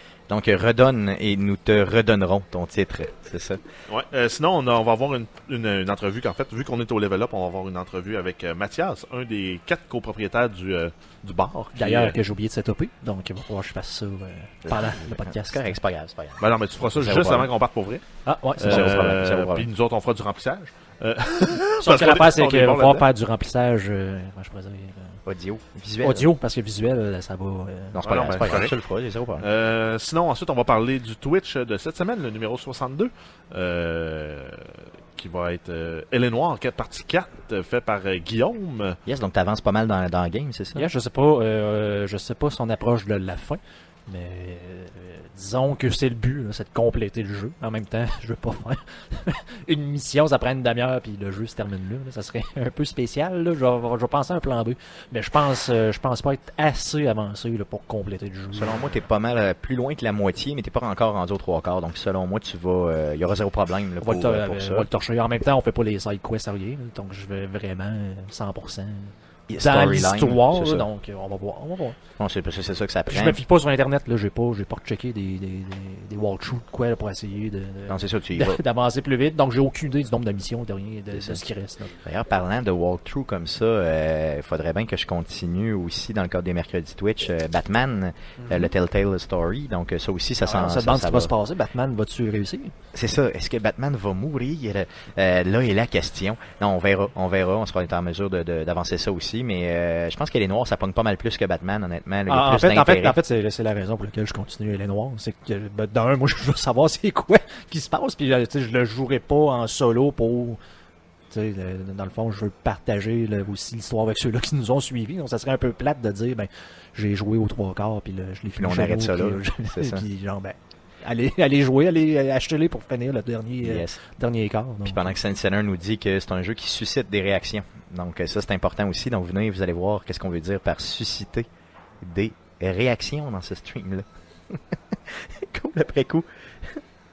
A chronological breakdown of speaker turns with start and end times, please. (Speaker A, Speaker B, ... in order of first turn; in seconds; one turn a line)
Speaker A: 0.3-3.6
Speaker B: 3.9-12.2
Speaker C: 11.8-15.8
Speaker A: 14.7-17.5
Speaker B: 16.4-18.0
Speaker C: 18.2-19.0
Speaker A: 18.6-19.7
Speaker B: 18.6-23.1
Speaker C: 21.8-25.2
Speaker A: 25.3-26.3
Speaker C: 26.0-28.0
Speaker A: 27.9-29.5
Speaker B: 28.0-28.8
Speaker B: 29.4-39.0
Speaker A: 39.1-40.9
Speaker C: 40.8-59.0
Speaker A: 58.5-64.9
Speaker C: 64.0-72.0
Speaker A: 69.5-70.8
Speaker A: 72.2-73.4
Speaker C: 73.1-81.9
Speaker A: 77.9-78.6
Speaker A: 81.1-81.4
Speaker A: 82.0-91.3
Speaker C: 90.4-92.7
Speaker A: 92.9-103.2
Speaker C: 102.3-110.6
Speaker C: 111.3-125.2
Speaker A: 118.5-120.0
Speaker A: 123.6-124.0
Speaker A: 124.8-131.5
Speaker A: 132.0-136.8